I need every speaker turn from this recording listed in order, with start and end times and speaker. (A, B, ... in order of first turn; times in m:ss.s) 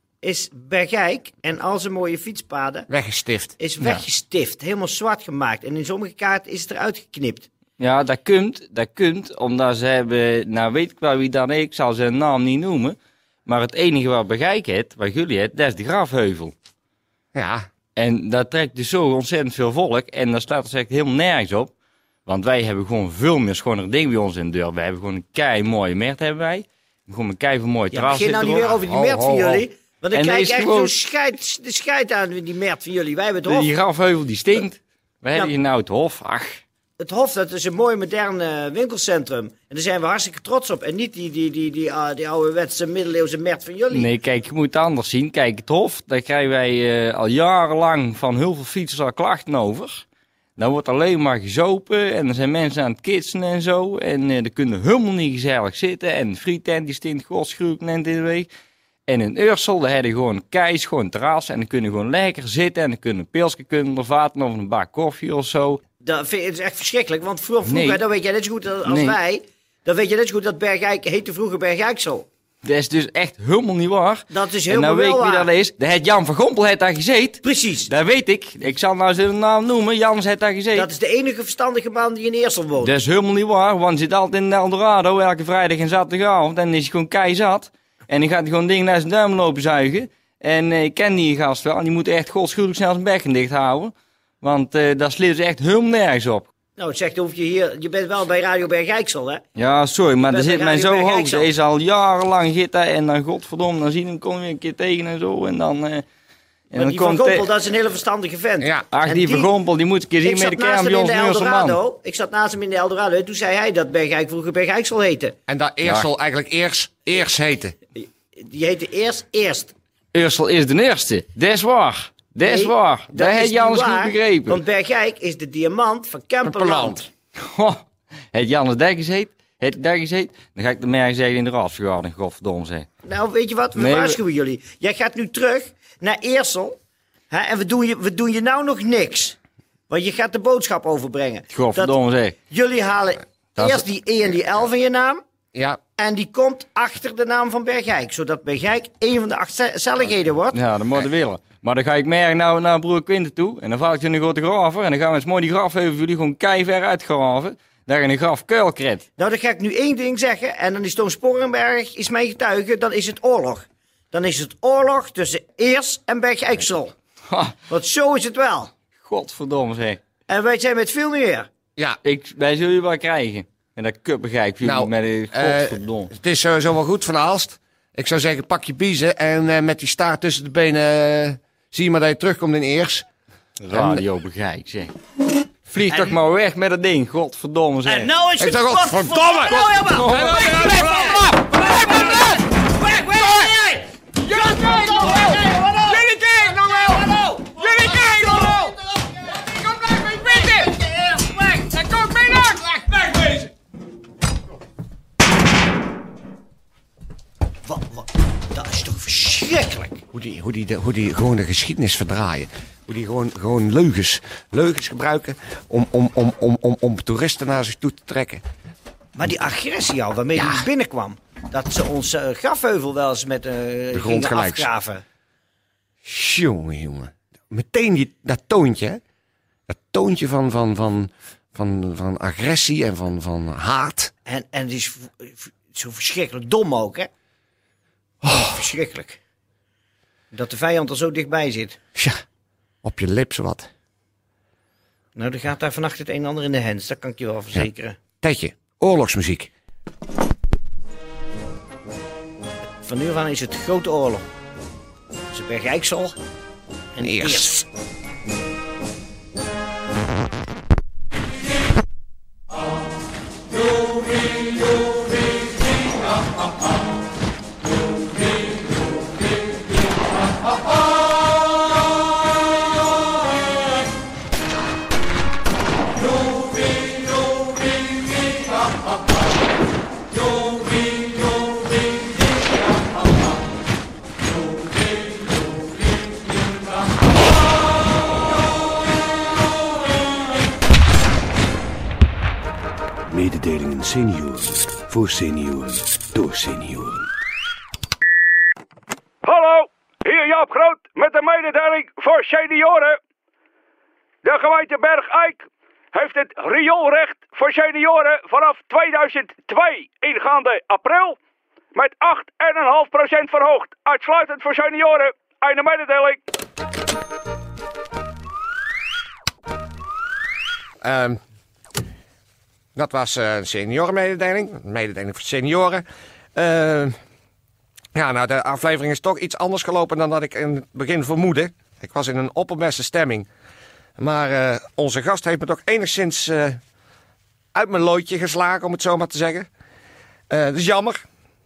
0:00.2-0:02.9 A
0:02.9-0:03.5 B
0:03.6-0:07.5 A
0:07.8-0:16.5 C
0:17.3-0:17.6 B
0:18.0-0:21.7 C
0:22.2-0:28.8 C
0:27.9-0:33.7 A
0:28.9-0:29.4 B
0:30.1-0:31.0 C
0:33.5-0:36.6 C
0:37.0-0:44.1 A
0:43.9-0:50.0 C
0:50.6-0:58.5 C
0:59.1-1:05.8 C
1:06.0-1:12.3 A
1:07.6-1:08.0 C
1:08.8-1:09.2 C
1:12.6-1:20.9 C
1:14.3-1:15.5 A
1:17.4-1:17.9 A
1:20.7-1:22.9 A
1:22.8-1:36.5 C
1:36.8-1:39.4 A
1:39.5-1:46.0 C
1:40.3-1:41.5 A
1:46.7-1:47.5 C
1:46.7-1:49.5 A
1:48.6-1:48.9 B
1:48.9-1:51.8 C
1:50.2-1:55.3 A
1:55.5-1:57.7 B
1:57.9-1:59.7 A
2:00.1-2:04.6 C
2:02.4-2:07.0 A
2:06.4-2:07.1 B
2:07.4-2:07.8 C
2:08.3-2:12.9 C
2:13.0-2:16.8 A
2:13.7-2:14.2 C
2:17.3-2:19.4 A
2:19.9-2:21.9 A
2:21.5-2:22.3 C
2:22.5-2:25.2 A
2:23.6-2:23.8 C
2:25.5-2:25.8 B
2:26.0-2:30.6 A
2:30.5-2:39.0 C
2:39.2-2:46.9 A
2:47.7-2:48.7 A
2:49.0-2:50.0 C
2:50.3-2:51.5 A
2:52.0-2:56.1 C
2:54.6-3:03.0 B
3:03.6-3:04.9 C
3:03.7-3:04.0 B
3:05.7-3:08.1 C
3:07.8-3:19.2 A
3:08.4-3:11.4 B
3:09.9-3:11.2 C
3:19.9-3:22.0 A
3:27.6-3:30.0 A
3:30.1-3:38.4 B
3:39.2-3:45.0 A
3:40.3-3:40.7 B
3:43.9-3:44.7 B
3:46.0-3:49.0 B
3:49.7-3:54.1 B
3:54.2-3:57.1 A
3:58.2-3:58.5 B
3:58.3-3:59.2 A
4:00.3-4:01.8 A
4:02.8-4:03.7 B
4:05.1-4:08.0 A
4:08.2-4:09.5 B
4:12.8-4:14.2 A
4:15.3-4:16.2 A
4:16.9-4:17.6 A
4:17.0-4:17.6 B
4:53.1-4:57.0 D
4:59.2-5:03.0 E
5:04.2-5:05.4 E
5:05.9-5:11.2 E
5:11.7-5:16.2 E
5:20.8-5:21.2 B
5:22.8-5:25.8 B
5:26.3-5:26.9 B
5:27.9-5:33.3 B
5:34.0-5:36.6 B
5:37.5-5:39.5 B
5:40.3-5:41.0 B